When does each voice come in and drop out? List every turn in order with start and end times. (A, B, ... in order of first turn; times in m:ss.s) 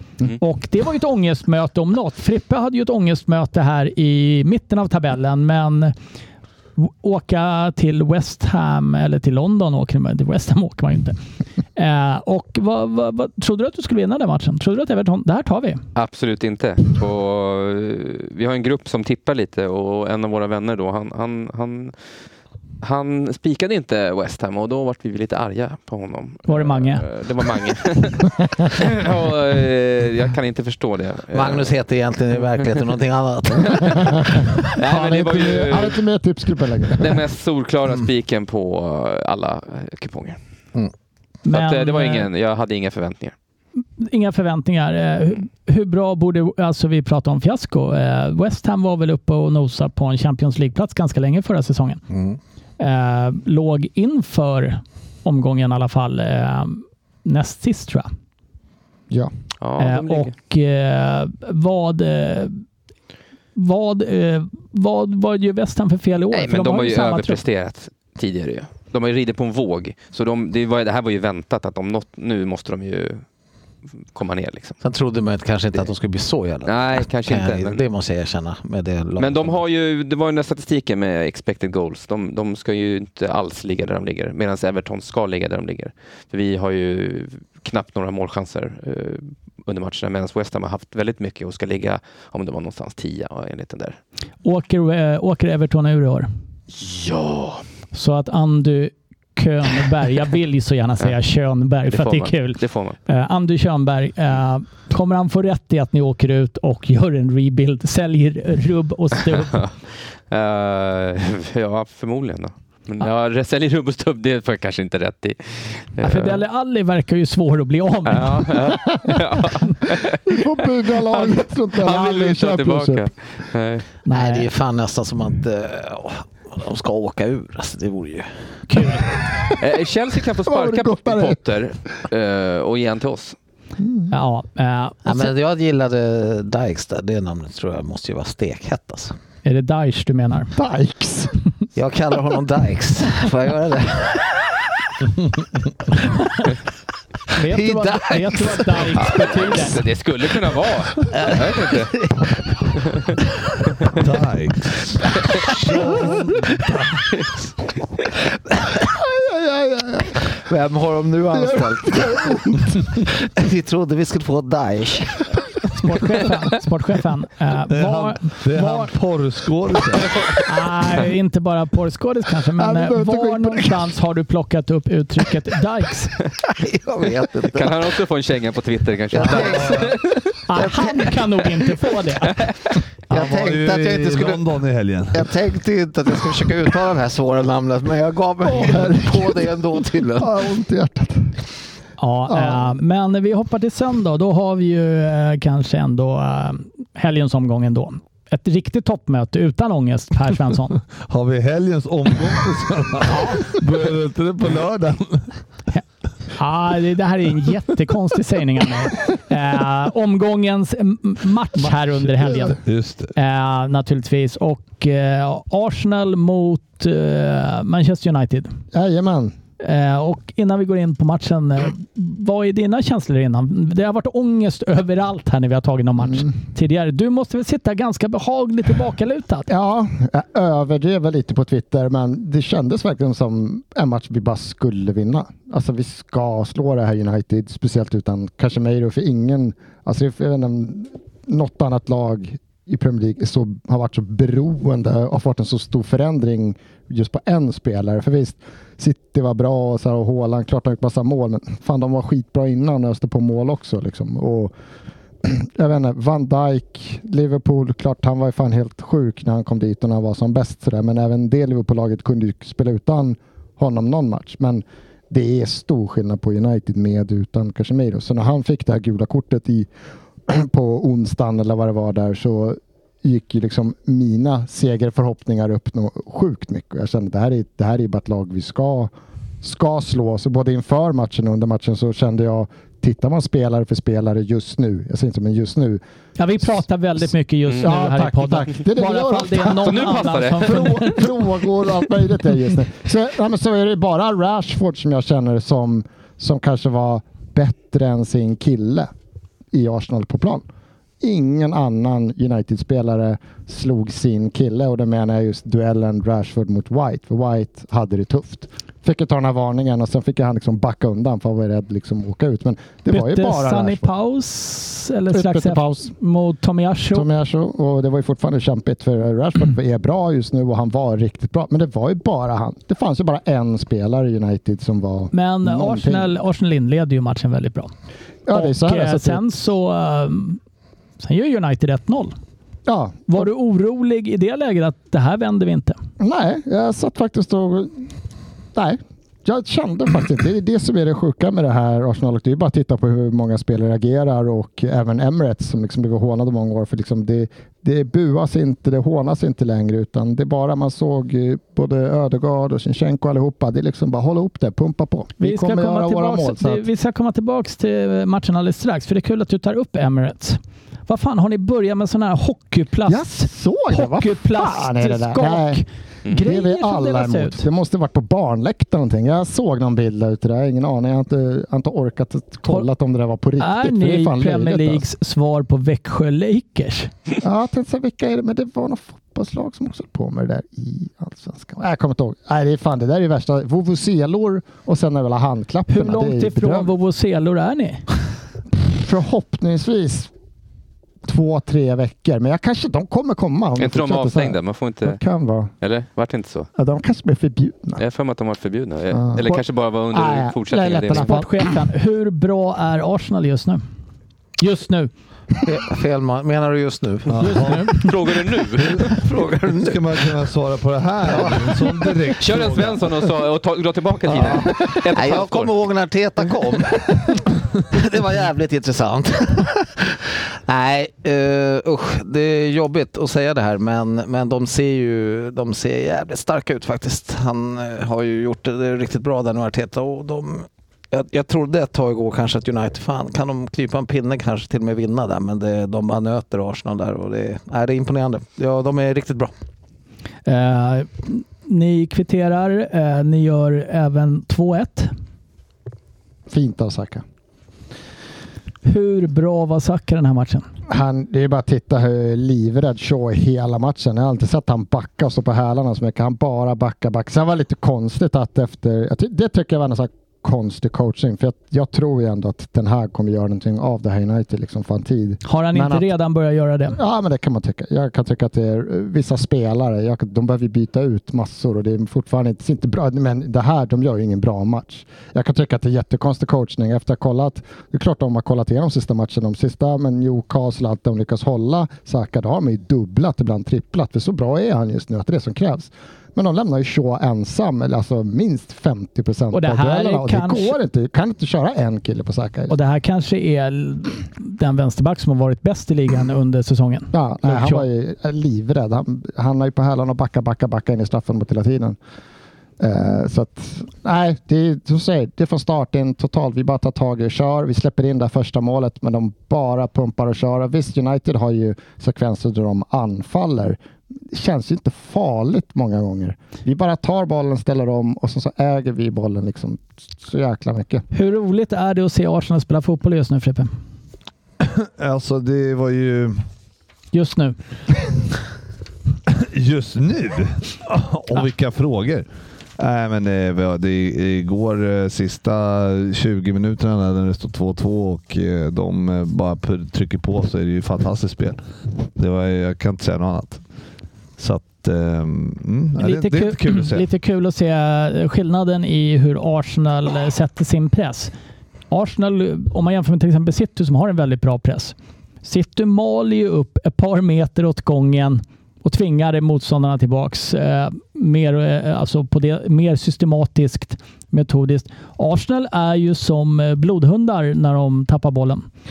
0:00.4-0:05.9 A
0:06.8-0:11.2 A
0:11.8-0:15.8 A
0:16.0-0:22.0 B
0:22.8-0:31.7 B
0:26.5-0:27.1 A
0:31.3-0:34.1 C
0:32.4-0:32.7 B
0:33.8-0:37.2 D
0:34.7-0:36.0 B
0:37.0-0:40.4 B
0:41.4-0:42.3 A
0:41.5-0:43.3 B
0:44.0-0:52.0 A
0:52.1-0:52.4 C
0:52.8-0:58.1 A
0:59.6-1:00.3 B
0:59.8-1:02.6 A
1:03.6-1:07.4 A
1:06.3-1:13.2 B
1:14.1-1:14.8 B
1:14.8-1:19.6 C
1:16.6-1:17.8 B
1:19.2-1:34.0 B
1:34.4-1:36.3 A
1:36.8-1:37.6 B
1:37.9-1:49.7 A
1:41.9-1:43.0 B
1:50.3-1:56.4 B
1:56.0-1:58.6 A
1:58.1-2:00.5 B
1:58.6-1:59.6 D
2:00.3-2:03.1 D
2:01.0-2:03.8 B
2:04.1-2:04.5 A
2:04.1-2:08.3 C
2:08.7-2:09.0 A
2:09.3-2:09.6 D
2:09.6-2:13.4 B
2:10.5-2:11.4 D
2:13.8-2:14.1 D
2:14.1-2:15.3 A
2:15.0-2:19.2 C
2:19.4-2:20.5 A
2:20.6-2:21.3 D
2:21.8-2:24.4 C
2:27.4-2:29.8 A
2:27.4-2:29.3 C
2:28.9-2:32.0 B
2:31.0-2:32.3 C
2:32.9-2:33.1 B
2:33.9-2:36.7 E
2:35.5-2:36.1 C
2:38.9-2:40.2 D
2:40.3-2:42.2 C
2:41.3-2:43.0 D
2:43.0-2:45.3 C
2:45.8-2:48.9 A
2:47.7-2:50.2 E
2:50.5-2:56.2 A
2:52.6-2:53.8 D
2:56.5-2:58.0 C
2:57.5-3:00.2 B
2:59.1-3:01.2 C
2:59.2-3:00.0 E
3:00.5-3:02.5 A
3:03.1-3:04.4 C
3:03.1-3:05.3 E
3:05.1-3:10.3 C
3:08.5-3:09.4 D
3:10.2-3:11.4 D
3:12.0-3:20.8 A
3:12.3-3:12.6 D
3:21.0-3:25.4 E
3:23.1-3:23.4 A
3:26.4-3:32.6 A
3:32.3-3:33.1 E
3:33.1-3:38.5 A
3:38.7-3:39.4 D
3:39.6-3:49.5 A
3:49.5-4:14.5 D
4:15.2-4:29.7 D
4:30.3-4:45.8 D
4:46.2-4:51.1 A
4:47.6-4:58.9 D
4:49.5-4:51.0 B
4:59.5-5:00.4 D
5:01.0-5:13.9 D
5:12.9-5:17.1 A
5:15.1-5:15.9 D
5:16.9-5:26.1 D
5:25.1-5:27.7 A
5:28.3-5:29.3 D
5:28.3-5:30.4 A
5:31.0-5:32.2 A
5:32.7-5:33.3 D
5:33.1-5:35.8 A
5:36.0-5:37.9 D
5:38.6-5:56.6 D
5:55.2-6:07.5 A
6:02.9-6:05.6 D
6:06.2-6:14.8 D
6:13.4-6:16.9 A
6:17.2-6:26.7 D
6:25.7-6:27.8 A
6:28.6-6:30.1 D
6:31.0-6:35.5 D
6:33.6-6:35.0 B
6:35.6-6:36.5 B
6:36.6-6:37.8 D
6:37.8-6:41.2 B
6:38.9-6:41.5 D
6:40.9-6:43.6 A
6:44.4-6:44.9 A
6:45.4-6:47.6 C
6:47.1-6:47.8 E
6:47.2-6:47.9 A
6:47.8-6:48.9 B
6:48.6-6:50.2 C
6:48.6-6:53.0 E
6:51.0-6:52.0 C
6:52.2-6:55.5 B
6:54.1-6:54.5 E
6:54.1-7:19.3 C
7:20.3-7:24.9 A
7:26.3-7:27.0 D
7:28.6-7:30.5 A
7:30.7-7:45.9 D
7:45.2-7:46.8 A
7:46.7-8:12.5 D
8:09.3-8:10.6 A
8:12.5-8:17.6 A
8:16.9-8:21.8 D
8:22.6-8:33.6 D
8:34.1-8:40.8 D
8:40.9-8:43.5 A
8:44.4-8:46.2 E
8:46.9-8:47.4 A
8:49.1-8:52.1 E
8:52.6-9:01.4 E
9:02.0-9:03.4 E
9:04.2-9:06.9 E
9:05.8-9:11.1 A
9:11.7-9:28.5 A